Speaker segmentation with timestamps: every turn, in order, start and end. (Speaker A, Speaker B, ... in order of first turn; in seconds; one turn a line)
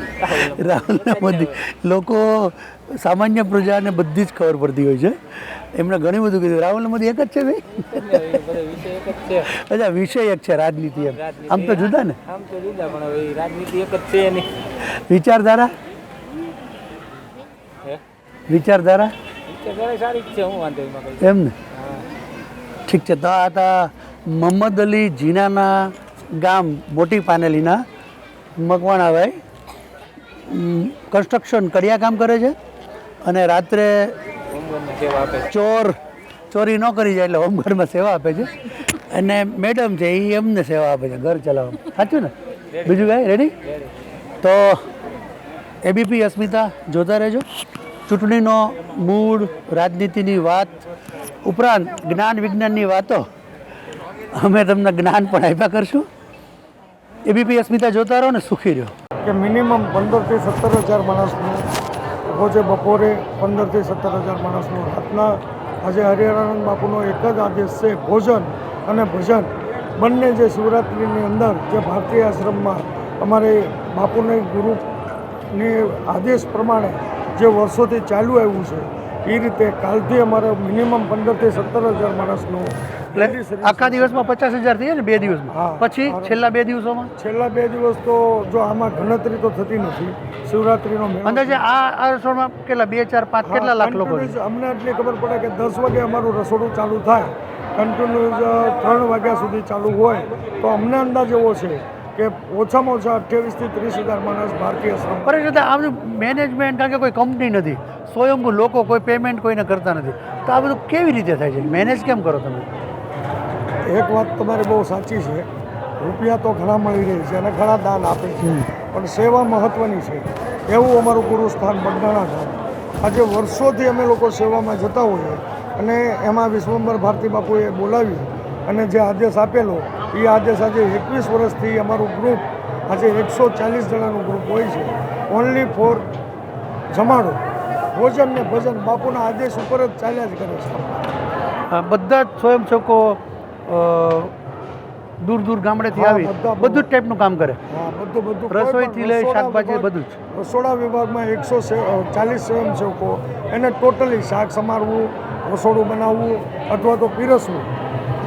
Speaker A: 0.2-1.6
Speaker B: 0.6-7.8
Speaker A: 7.9-9.5
Speaker B: 9.5-12.2
Speaker A: 11.0-14.5
Speaker B: 14.8-15.7
Speaker B: 18.5-19.1
Speaker A: 19.5-22.1
Speaker B: 21.2-21.5
Speaker B: 22.9-27.8
Speaker B: 28.6-29.4
Speaker B: 30.5-32.6
Speaker B: 33.2-34.2
Speaker A: 34.5-35.5
Speaker B: 35.5-36.0
Speaker B: 36.5-42.3
Speaker A: 42.7-43.9
Speaker B: 42.9-43.5
Speaker B: 44.4-44.8
Speaker B: 45.8-47.5
Speaker B: 48.1-50.8
Speaker B: 51.5-53.3
Speaker B: 54.3-56.1
Speaker B: 57.3-58.9
Speaker C: 59.2-61.6
Speaker C: 62.3-74.8
Speaker C: 75.5-84.2
Speaker B: 83.1-87.1
Speaker C: 85.5-86.3
Speaker C: 87.2-91.6
Speaker B: 91.3-94.3
Speaker C: 93.5-105.3
Speaker B: 105.3-112.7
Speaker C: 113.8-115.5
Speaker C: 116.0-136.1
Speaker B: 118.4-118.7
Speaker C: 136.9-137.4
Speaker C: 137.9-140.9
Speaker B: 141.7-144.3
Speaker B: 145.2-147.6
Speaker C: 145.9-146.9
Speaker C: 147.7-157.7
Speaker B: 148.5-150.2